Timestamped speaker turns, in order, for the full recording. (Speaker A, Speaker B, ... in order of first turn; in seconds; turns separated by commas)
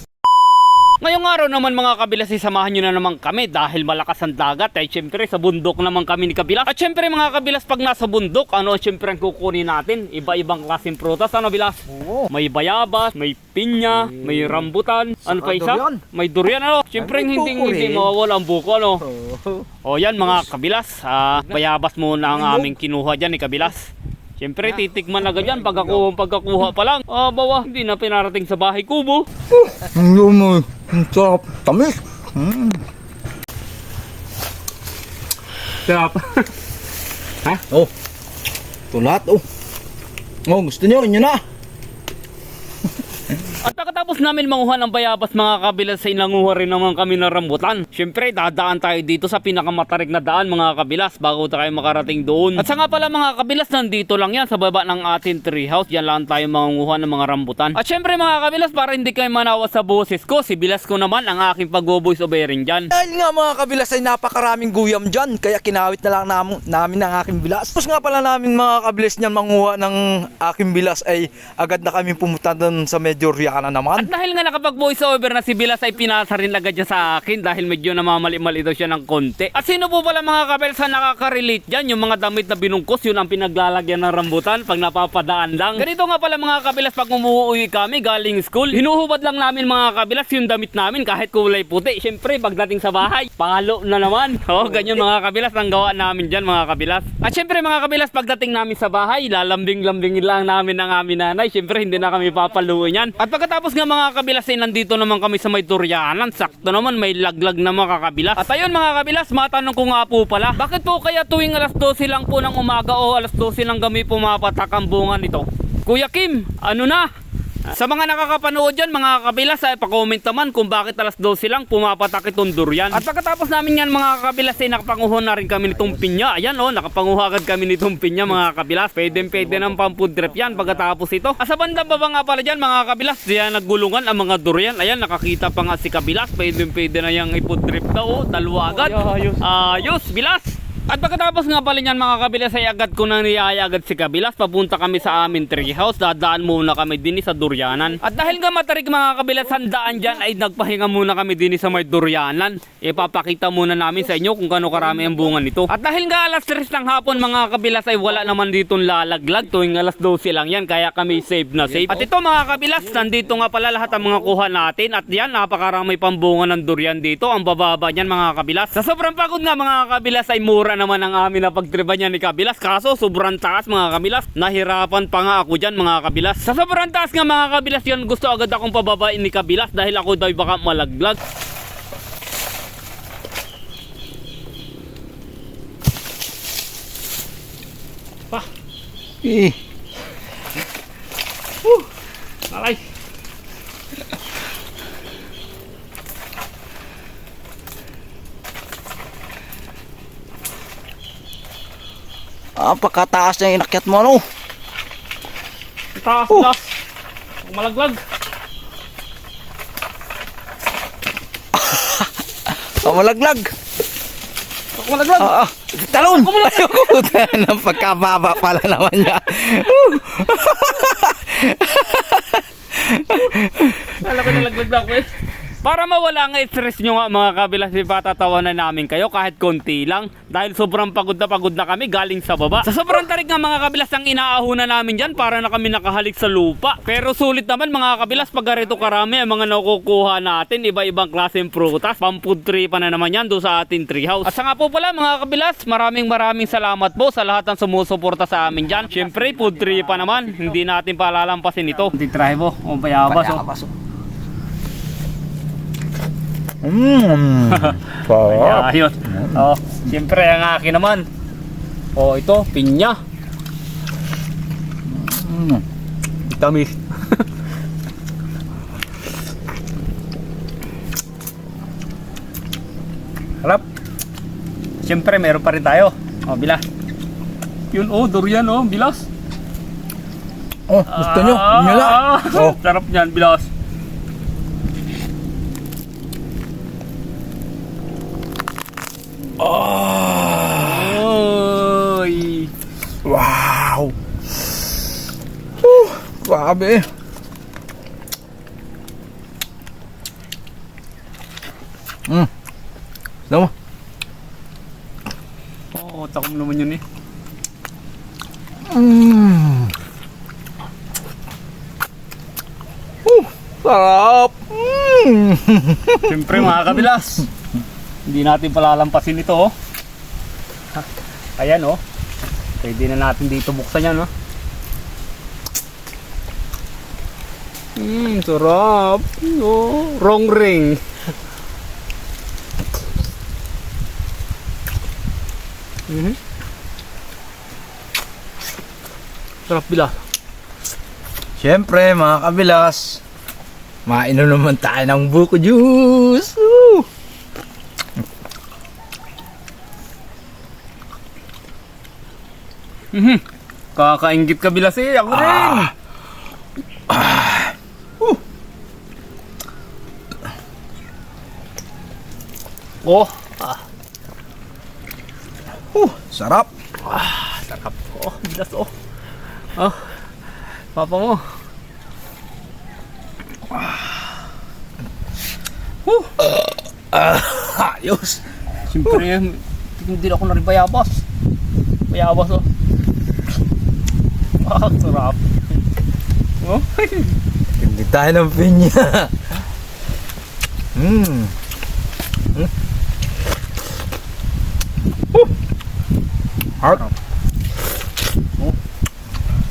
Speaker A: 1.0-19.0, Speaker B: 11.9-12.3, Speaker B: 15.2-16.0, Speaker B: 17.0-18.1, Speaker B: 19.0-19.7, Speaker A: 19.8-29.2, Speaker B: 22.3-22.7, Speaker B: 29.5-32.8, Speaker A: 35.9-36.5, Speaker B: 37.4-37.9, Speaker B: 38.9-39.4, Speaker B: 40.5-41.4, Speaker A: 43.6-62.9, Speaker B: 62.9-74.1, Speaker A: 73.9-117.1, Speaker A: 117.7-181.2, Speaker B: 189.2-189.6, Speaker A: 192.5-192.8, Speaker B: 202.6-204.2, Speaker A: 206.0-206.6, Speaker B: 206.3-206.5, Speaker A: 207.4-208.0, Speaker B: 211.5-212.1, Speaker B: 212.7-213.5, Speaker A: 214.8-215.4, Speaker B: 215.2-224.0, Speaker A: 215.9-217.1, Speaker A: 224.0-225.1, Speaker A: 225.6-253.4, Speaker B: 253.0-253.7, Speaker B: 256.6-259.5, Speaker A: 257.5-261.1, Speaker A: 261.9-263.0, Speaker B: 264.9-265.6, Speaker A: 266.3-267.2, Speaker A: 274.8-276.6, Speaker A: 277.7-279.1, Speaker B: 280.7-282.6, Speaker A: 280.9-283.5, Speaker B: 289.4-291.0, Speaker A: 290.5-292.5, Speaker B: 293.0-293.9, Speaker B: 295.6-296.9, Speaker A: 305.7-306.8, Speaker B: 308.7-309.7, Speaker B: 313.0-316.8, Speaker A: 316.0-317.3, Speaker A: 318.1-319.5, Speaker A: 321.4-321.8, Speaker A: 322.6-324.1, Speaker A: 327.8-330.8, Speaker A: 335.9-336.1, Speaker A: 339.5-339.9, Speaker B: 341.4-343.0, Speaker B: 343.9-346.9, Speaker A: 352.9-353.2, Speaker A: 353.8-355.7, Speaker B: 355.1-355.7, Speaker B: 356.9-358.2, Speaker A: 362.8-363.6, Speaker B: 365.7-366.5, Speaker A: 366.9-368.7, Speaker A: 370.8-371.2, Speaker B: 376.2-378.2, Speaker A: 378.7-381.0, Speaker A: 381.9-382.4, Speaker A: 384.4-385.1, Speaker A: 386.4-387.1, Speaker B: 387.6-389.1, Speaker B: 390.8-391.3, Speaker B: 396.6-396.9